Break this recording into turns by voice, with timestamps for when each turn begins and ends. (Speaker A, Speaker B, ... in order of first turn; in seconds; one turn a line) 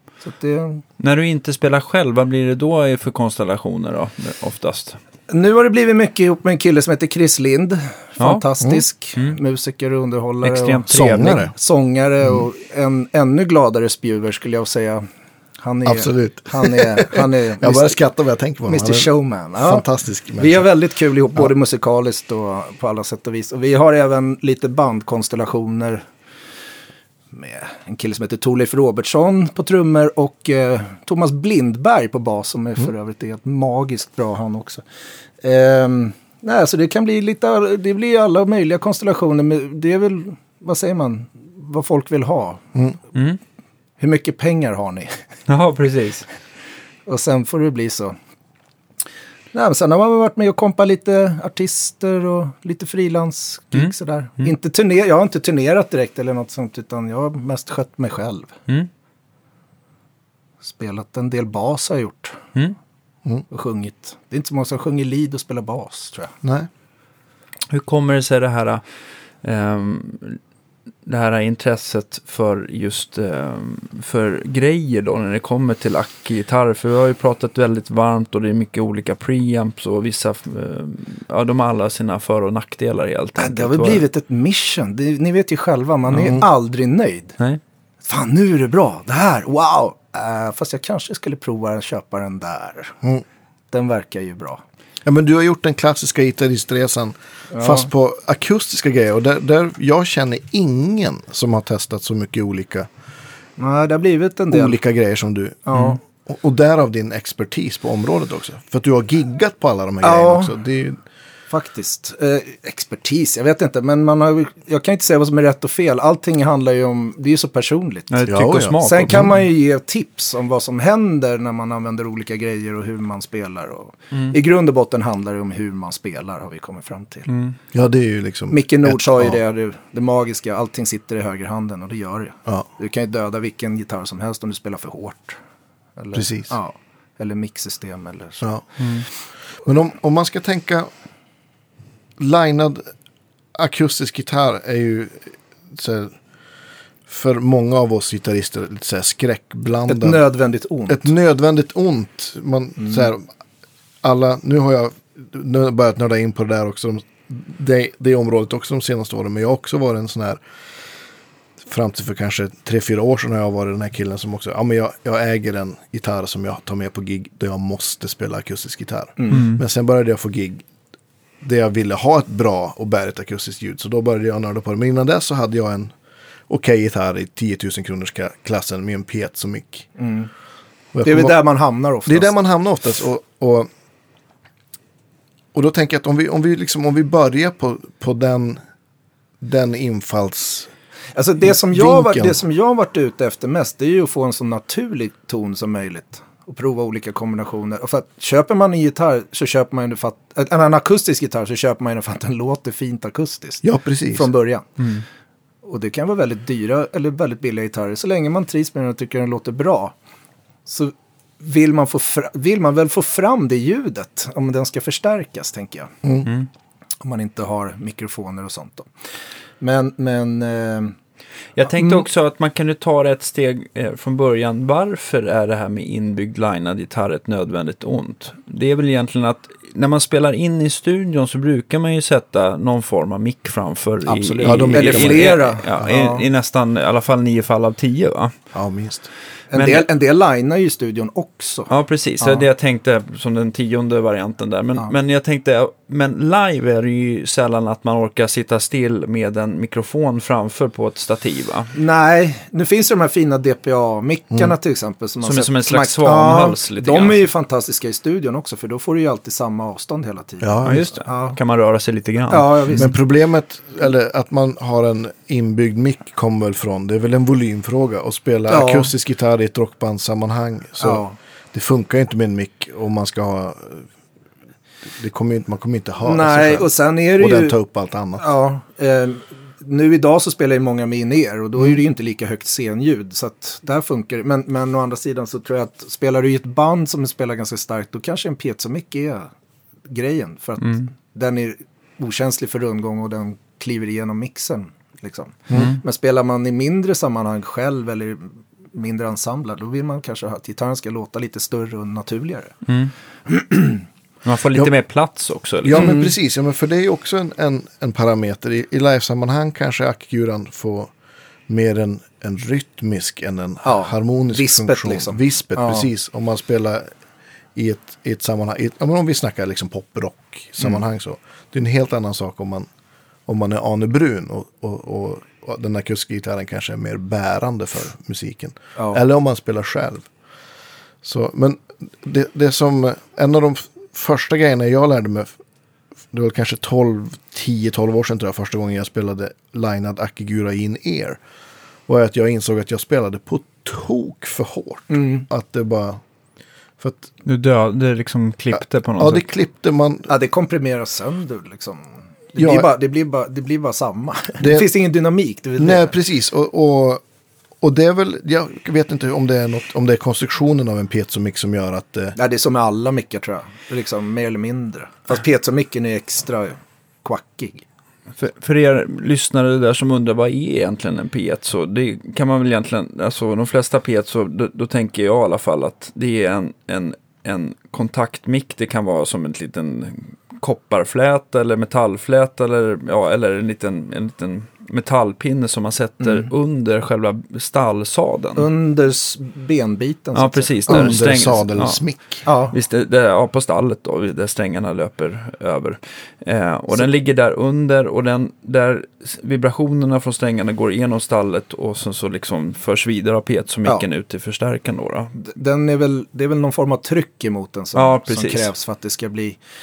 Speaker A: 0.2-0.8
Speaker B: 1.0-5.0
Speaker A: 5.3-15.1
Speaker B: 8.2-8.4
Speaker B: 10.4-11.5
Speaker C: 10.9-11.5
Speaker A: 15.6-18.0
Speaker C: 15.8-20.7
Speaker A: 18.7-19.9
Speaker A: 20.4-26.1
Speaker A: 27.3-34.8
Speaker A: 35.4-42.6
Speaker B: 43.1-43.4
Speaker A: 44.0-45.1
Speaker B: 45.5-46.3
Speaker A: 47.1-48.2
Speaker A: 49.5-58.5
Speaker B: 53.7-54.5
Speaker A: 60.6-62.4
Speaker A: 63.5-66.3
Speaker C: 66.4-66.7
Speaker B: 67.7-68.8
Speaker B: 69.4-70.4
Speaker B: 71.0-84.0
Speaker A: 83.4-87.4
Speaker B: 86.1-86.4
Speaker C: 86.2-86.4
Speaker A: 88.1-93.0
Speaker A: 93.7-94.6
Speaker C: 95.0-102.9
Speaker A: 97.5-97.9
Speaker A: 103.6-104.8
Speaker C: 104.5-111.0
Speaker A: 105.7-106.0
Speaker A: 110.0-110.6
Speaker A: 111.5-118.2
Speaker B: 118.1-119.3
Speaker C: 118.3-119.2
Speaker A: 118.8-127.3
Speaker B: 127.3-127.6
Speaker C: 127.7-129.4
Speaker A: 128.5-135.4
Speaker A: 136.0-138.5
Speaker C: 136.1-136.6
Speaker B: 138.8-139.1
Speaker C: 139.6-140.9
Speaker C: 142.2-142.9
Speaker C: 143.6-146.1
Speaker C: 147.1-150.2
Speaker A: 149.9-151.1
Speaker C: 150.9-153.3
Speaker A: 152.8-153.1
Speaker C: 154.0-160.4
Speaker C: 161.6-170.6
Speaker A: 169.2-169.4
Speaker B: 169.3-169.6
Speaker C: 171.4-175.9
Speaker C: 176.5-179.9
Speaker A: 180.0-180.3
Speaker C: 180.9-181.4
Speaker A: 181.0-182.3
Speaker C: 182.1-183.7
Speaker C: 185.5-188.6
Speaker C: 189.4-190.7
Speaker A: 191.2-204.7
Speaker C: 191.6-192.4
Speaker C: 203.6-204.3
Speaker B: 204.8-205.0
Speaker A: 205.7-209.9
Speaker A: 210.7-215.9
Speaker B: 216.2-216.5
Speaker A: 217.0-218.9
Speaker A: 219.6-220.9
Speaker B: 221.6-238.4
Speaker A: 221.7-222.0
Speaker A: 234.1-236.2
Speaker C: 234.4-235.3
Speaker C: 238.5-239.1
Speaker A: 239.5-242.5
Speaker B: 239.5-239.9
Speaker B: 241.7-251.7
Speaker A: 251.7-261.4
Speaker B: 255.2-257.2
Speaker C: 260.4-260.9
Speaker B: 260.6-262.9
Speaker A: 262.3-262.9
Speaker C: 262.8-273.9
Speaker A: 268.5-268.9
Speaker A: 270.8-271.1
Speaker C: 274.9-278.2
Speaker A: 276.0-277.6
Speaker A: 278.2-289.3
Speaker A: 289.9-302.6
Speaker B: 290.6-290.9
Speaker B: 295.5-295.8
Speaker B: 302.7-302.9
Speaker A: 303.3-303.9
Speaker B: 304.2-306.0
Speaker C: 305.6-310.9
Speaker A: 305.7-306.1
Speaker C: 311.5-316.9
Speaker A: 313.6-315.9
Speaker C: 317.6-322.7
Speaker C: 323.3-330.1
Speaker A: 328.8-329.0
Speaker C: 331.0-335.3
Speaker C: 336.1-341.2
Speaker C: 341.9-346.0
Speaker A: 344.9-345.3
Speaker C: 346.8-347.1
Speaker B: 347.2-349.2
Speaker C: 348.6-350.1
Speaker A: 350.1-356.0
Speaker C: 352.4-352.7
Speaker C: 354.4-354.7
Speaker C: 355.6-357.0
Speaker C: 357.6-362.2
Speaker A: 362.2-367.6
Speaker B: 368.2-388.5
Speaker A: 386.0-386.3
Speaker A: 388.4-391.0
Speaker B: 390.1-391.8
Speaker C: 390.7-392.2
Speaker A: 392.3-392.6
Speaker B: 392.5-405.1
Speaker A: 405.2-409.4
Speaker B: 407.8-408.5